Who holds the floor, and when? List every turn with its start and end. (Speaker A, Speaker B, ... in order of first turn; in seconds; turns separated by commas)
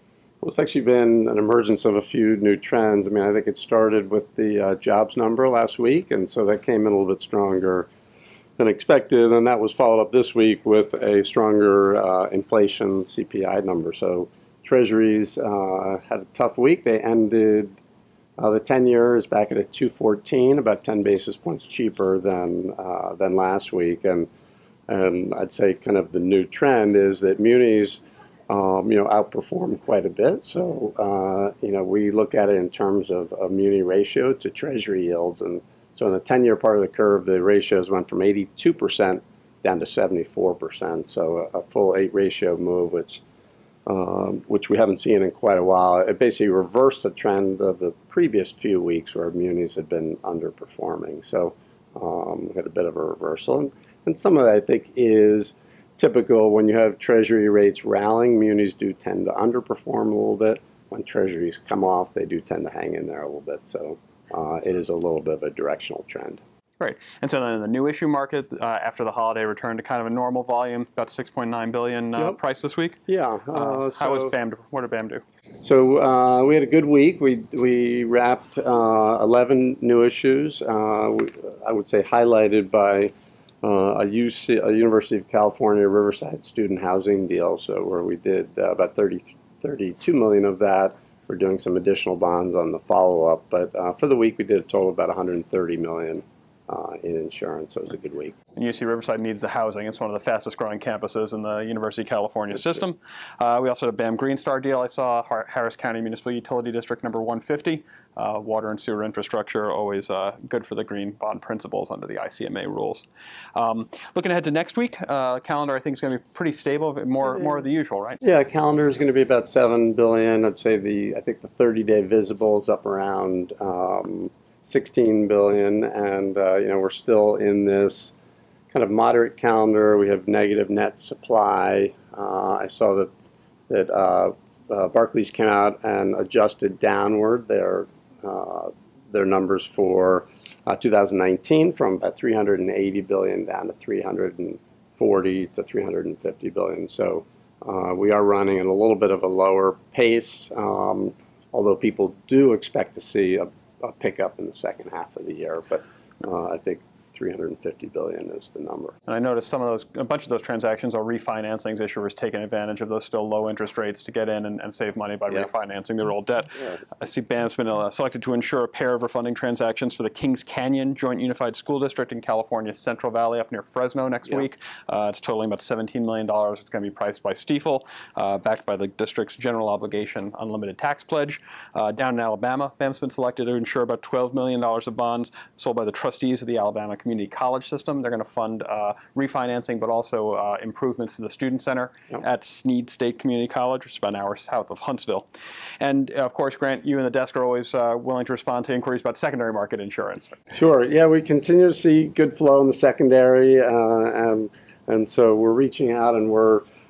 Speaker A: 0.4-7.9, Speaker A: 8.6-17.8, Speaker A: 18.4-24.3, Speaker A: 24.9-43.2, Speaker A: 43.9-66.4, Speaker B: 66.8-73.0, Speaker A: 73.1-74.3, Speaker B: 73.5-75.2, Speaker A: 75.6-98.3, Speaker B: 98.6-118.2, Speaker A: 102.5-102.8, Speaker A: 118.2-128.1, Speaker A: 128.7-133.1, Speaker A: 133.7-158.9, Speaker B: 159.1-195.3, Speaker B: 195.8-200.4, Speaker A: 200.5-206.7